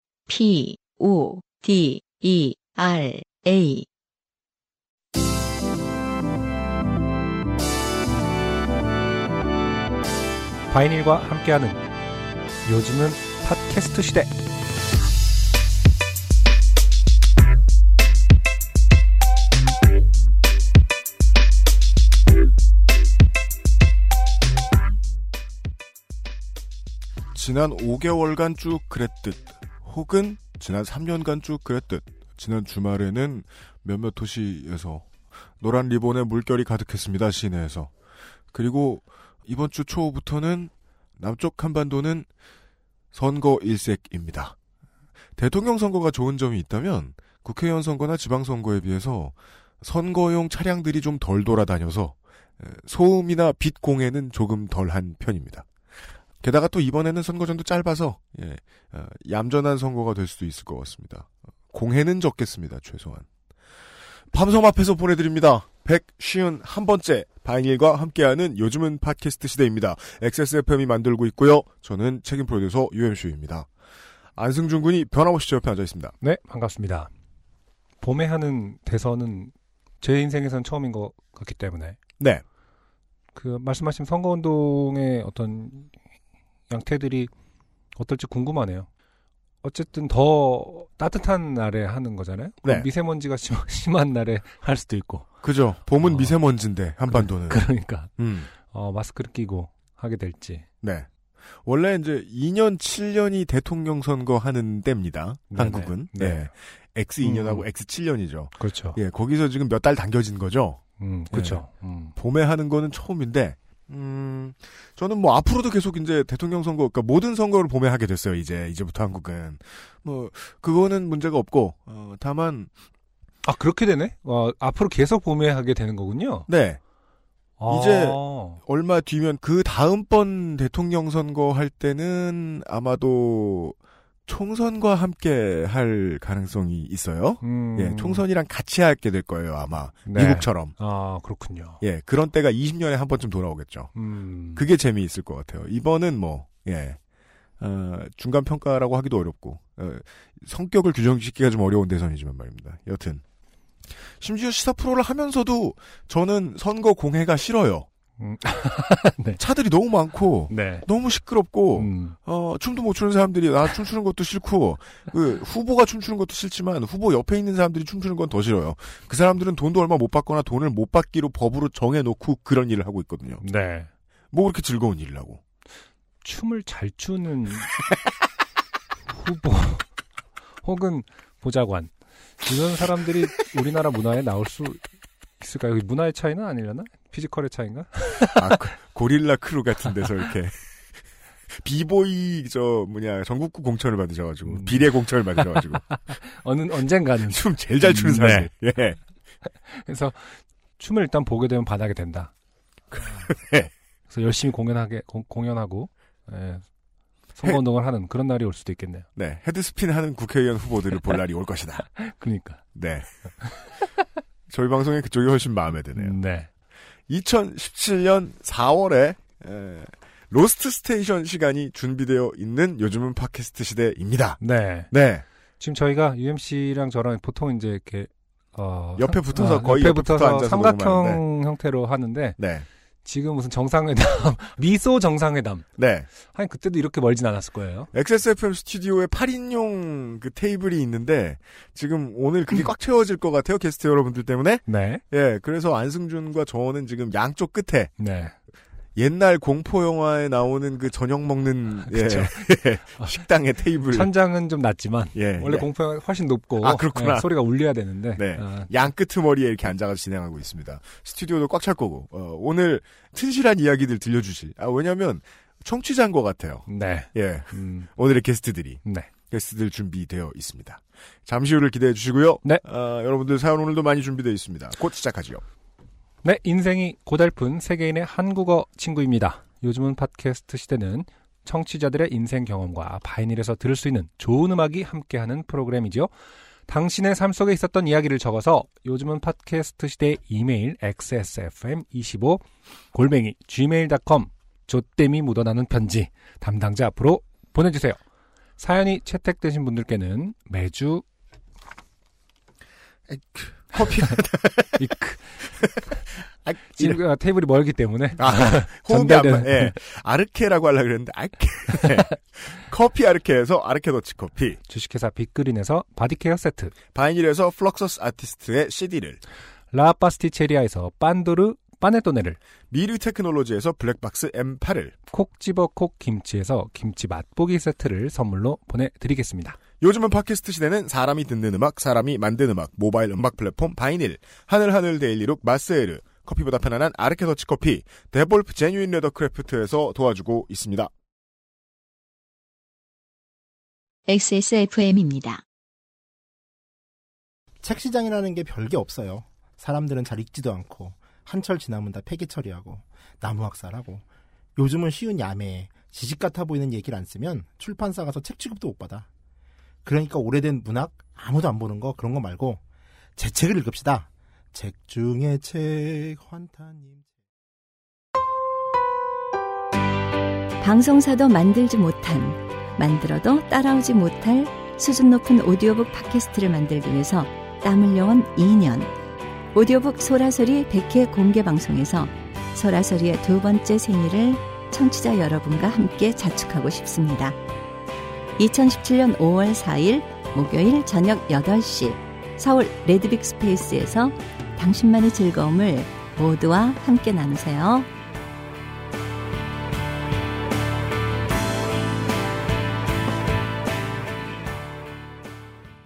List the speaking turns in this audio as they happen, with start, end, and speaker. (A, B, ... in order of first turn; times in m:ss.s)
0:00.3-0:03.9 A
0:10.7-0:11.8 B
0:12.6-0:14.3 B
0:27.3-0:35.1 C
0:35.6-0:37.9 C
0:38.5-0:42.3 C
0:43.1-0:44.6 C
0:45.4-0:55.7 C
0:56.4-1:03.3 C
1:04.3-1:13.7 C
1:14.4-1:16.1 C
1:16.2-1:17.1 B
1:18.0-1:22.0 B
1:23.4-1:25.9 B
1:26.7-1:27.3 B
1:28.0-1:28.9 B
1:29.6-1:35.3 B
1:32.6-1:32.9 C
1:35.4-1:37.7 C
1:36.0-1:36.4 B
1:37.1-1:40.7 B
1:38.2-1:38.5 C
1:40.8-1:41.1 C
1:41.6-1:50.8 C
1:45.5-1:46.5 B
1:47.2-1:47.7 B
1:48.6-1:49.0 B
1:51.0-1:52.1 B
1:51.3-2:02.7 C
2:03.4-2:06.5 B
2:06.5-2:06.8 C
2:07.6-2:08.6 B
2:07.7-2:20.7 C
2:17.4-2:18.2 B
2:20.1-2:21.8 B
2:21.8-2:23.9 C
2:24.0-2:24.6 B
2:24.6-2:27.0 C
2:27.6-2:33.2 C
2:34.2-2:37.9 C
2:38.2-2:39.4 B
2:39.4-2:53.4 C
2:40.5-2:40.9 B
2:41.7-2:42.2 B
2:53.4-2:53.9 B
2:54.3-2:55.4 C
2:56.2-2:57.7 B
2:59.1-2:59.9 B
3:00.6-3:01.9 B
3:02.4-3:04.8 B
3:05.4-3:08.5 B
3:08.4-3:10.6 C
3:11.5-3:15.8 C
3:14.4-3:14.9 B
3:15.9-3:18.5 B
3:17.3-3:19.0 C
3:19.7-3:22.3 B
3:22.9-3:23.7 C
3:24.1-3:26.6 B
3:27.4-3:29.1 B
3:29.2-3:31.9 C
3:32.0-3:32.6 B
3:32.8-3:33.1 C
3:34.5-3:36.2 C
3:36.0-3:36.5 B
3:37.1-3:45.2 C
3:44.4-3:44.9 B
3:45.6-3:52.4 B
3:49.0-3:51.2 C
3:52.4-3:52.7 C
3:53.0-3:55.6 B
3:55.8-3:56.1 C
3:56.2-3:57.9 B
3:57.9-4:07.9 C
4:04.7-4:05.0 B
4:08.0-4:08.4 B
4:09.0-4:14.1 C
4:11.8-4:13.1 B
4:13.9-4:18.7 B
4:15.2-4:15.7 C
4:16.6-4:17.4 C
4:18.2-4:35.4 C
4:26.7-4:27.9 B
4:28.8-4:29.1 B
4:36.2-4:46.1 B
4:46.7-4:58.0 B
4:58.6-5:01.0 B
5:03.1-5:04.9 C
5:04.8-5:05.3 B
5:06.4-5:07.0 C
5:06.8-5:09.8 B
5:08.2-5:14.6 C
5:14.7-5:16.7 B
5:16.9-5:19.2 C
5:19.7-5:22.4 B
5:22.7-5:25.0 C
5:25.1-5:29.6 B
5:29.8-5:40.9 C
5:44.1-5:45.4 A
5:47.6-5:54.0 D
5:54.6-5:59.1 D
5:59.8-6:02.6 D
6:03.2-6:07.1 D
6:10.6-6:18.9 E
6:19.5-6:27.4 E
6:28.4-6:37.9 E